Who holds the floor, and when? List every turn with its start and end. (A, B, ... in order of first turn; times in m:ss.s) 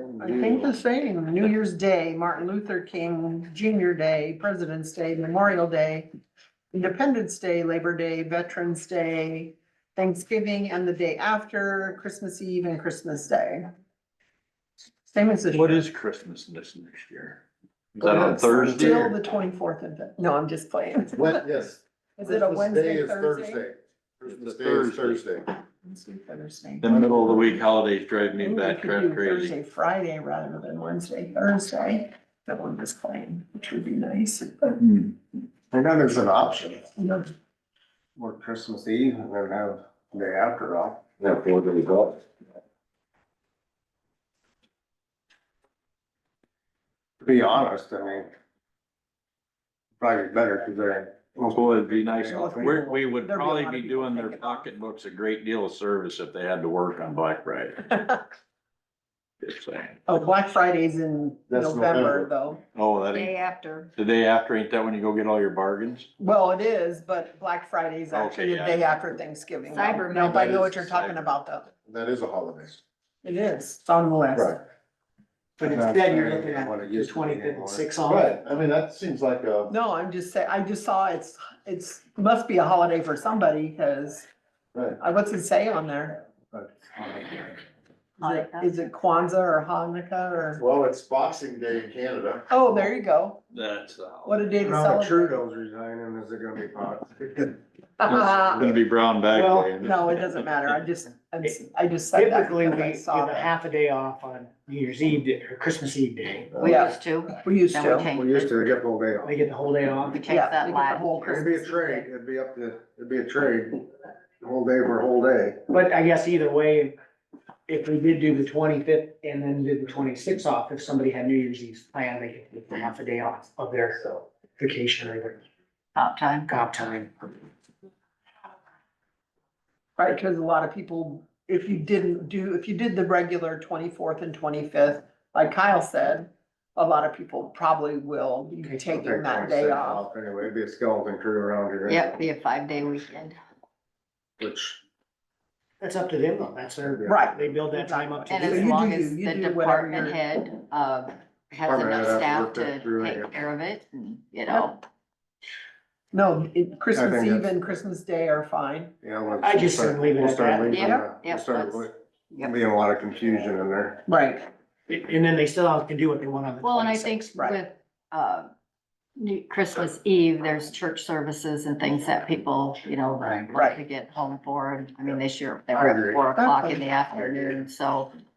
0:00.2-0:06.1 A
0:06.7-0:13.7 A
0:15.1-0:15.9 A
0:15.5-0:17.4 B
0:18.0-0:19.1 B
0:18.0-0:18.4 C
0:18.1-0:21.3 A
0:18.3-0:19.0 D
0:21.1-0:25.5 D
0:22.2-0:23.6 A
0:24.2-0:25.4 B
0:25.6-0:27.7 A
0:26.8-0:29.6 B
0:28.4-0:34.8 A
0:34.8-0:35.1 B
0:35.7-0:36.9 C
0:37.0-0:37.3 A
0:38.2-0:41.0 C
0:41.2-0:42.2 D
0:47.2-0:48.3 C
0:50.0-0:52.8 C
0:51.5-0:57.8 B
0:52.3-0:54.7 A
0:59.4-1:00.0 B
1:00.1-1:02.6 A
1:01.5-1:02.3 D
1:02.7-1:03.4 B
1:03.1-1:03.9 E
1:04.0-1:06.1 B
1:06.2-1:11.7 A
1:08.1-1:09.0 B
1:09.7-1:10.4 E
1:10.1-1:10.9 D
1:10.4-1:11.3 B
1:11.8-1:12.8 D
1:13.2-1:14.6 A
1:14.3-1:14.6 D
1:15.6-1:18.4 F
1:15.6-1:17.9 C
1:18.1-1:19.7 D
1:19.7-1:24.3 A
1:25.0-1:26.2 A
1:26.5-1:27.6 C
1:28.2-1:28.7 E
1:28.2-1:30.6 A
1:30.6-1:32.5 D
1:32.5-1:33.4 A
1:33.5-1:34.4 B
1:34.2-1:35.4 A
1:34.6-1:37.6 C
1:38.0-1:38.6 A
1:38.0-1:40.5 B
1:39.3-1:39.7 F
1:39.8-1:43.5 A
1:42.1-1:46.7 F
1:46.6-1:48.1 A
1:46.6-1:48.7 E
1:48.1-1:49.4 C
1:49.2-1:50.3 F
1:50.1-1:51.4 E
1:50.3-1:52.1 A
1:51.2-1:53.9 C
1:54.4-1:55.6 C
1:55.7-1:56.9 F
1:57.7-2:05.4 F
2:06.0-2:06.5 E
2:06.5-2:07.1 F
2:10.0-2:20.1 A
2:18.9-2:22.1 C
2:21.9-2:23.4 E
2:24.4-2:24.8 C
2:25.8-2:28.8 F
2:26.9-2:27.2 C
2:27.1-2:30.2 A
2:28.3-2:34.8 E
2:31.6-2:33.3 C
2:36.1-2:38.9 A
2:36.9-2:37.5 C
2:39.0-2:44.0 C
2:39.4-2:41.0 F
2:40.8-2:42.6 E
2:44.1-2:44.5 A
2:44.9-2:47.3 F
2:46.6-2:48.5 E
2:49.2-2:58.1 E
2:53.2-2:53.5 F
2:53.5-2:53.8 A
2:55.8-2:56.2 C
2:56.3-2:56.8 A
2:57.2-2:57.5 C